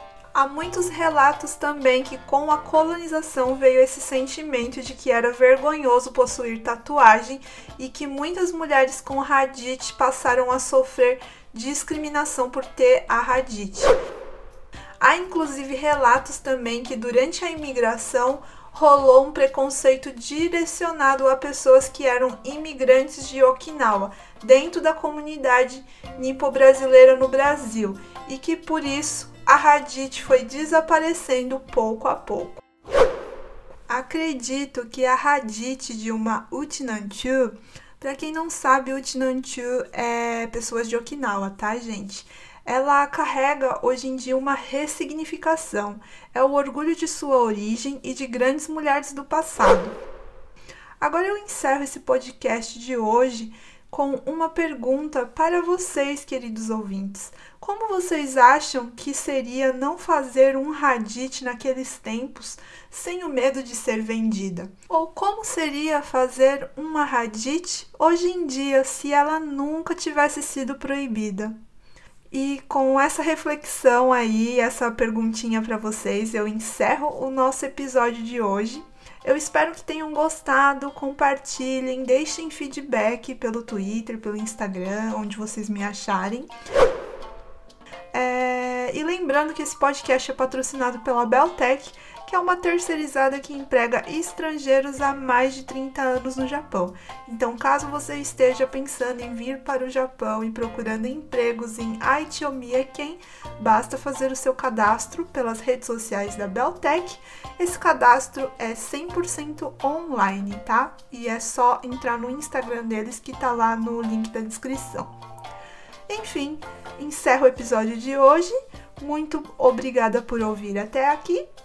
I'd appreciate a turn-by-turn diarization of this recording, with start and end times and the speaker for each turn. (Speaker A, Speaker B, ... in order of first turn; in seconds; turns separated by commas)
Speaker A: 0.3-14.0, Speaker A: 15.0-32.6, Speaker A: 33.9-50.0, Speaker A: 51.0-71.5, Speaker A: 72.3-86.5, Speaker A: 88.1-115.1, Speaker A: 116.1-121.4